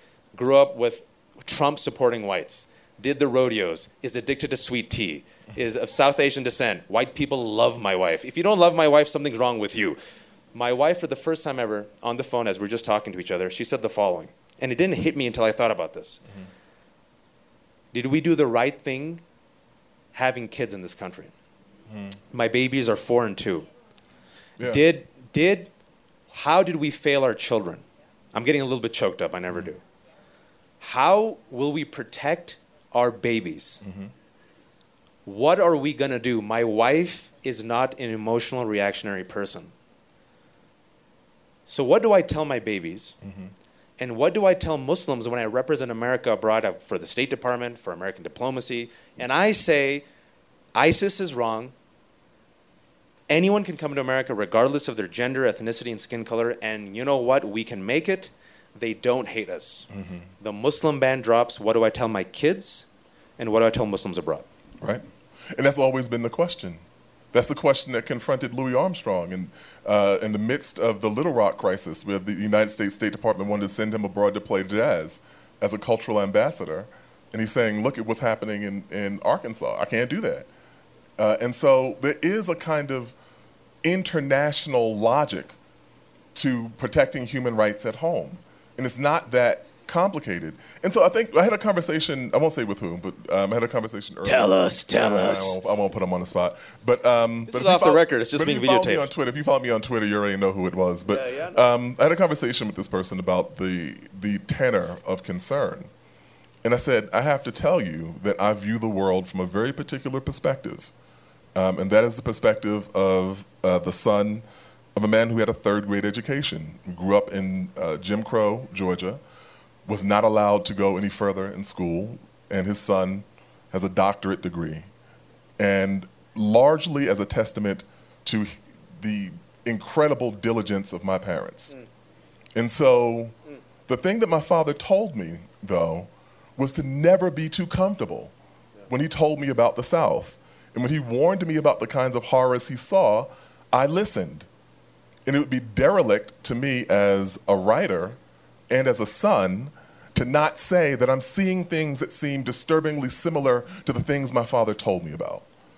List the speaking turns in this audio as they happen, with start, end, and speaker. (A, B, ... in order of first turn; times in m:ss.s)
0:00.3-0:10.0 A
0:10.5-0:16.2 A
0:17.9-0:19.2 A
0:20.1-0:21.3 A
0:21.9-0:22.2 B
0:22.3-0:23.7 A
0:24.6-0:24.8 B
0:24.6-0:25.7 A
0:26.3-0:29.8 A
0:30.8-0:33.8 A
0:33.8-0:34.1 B
0:35.2-0:39.7 A
0:41.7-0:43.2 A
0:43.2-0:43.5 B
0:44.0-0:50.0 A
0:50.7-0:51.7 A
0:53.3-0:59.9 A
0:59.9-1:00.2 B
1:00.4-1:02.9 A
1:03.4-1:04.4 A
1:04.8-1:06.8 B
1:07.3-1:20.5 B
1:21.2-1:23.1 B
1:23.8-1:25.6 B
1:26.4-1:45.9 B
1:34.2-1:35.6 A
1:37.5-1:39.1 A
1:41.1-1:41.6 A
1:46.6-1:50.9 B
1:51.6-1:54.4 B
1:54.9-1:59.2 B
1:59.9-2:04.9 B
2:05.6-2:11.7 B
2:12.6-2:13.4 B
2:13.9-2:18.3 B
2:18.9-2:24.5 B
2:25.2-2:28.2 B
2:28.7-2:35.4 B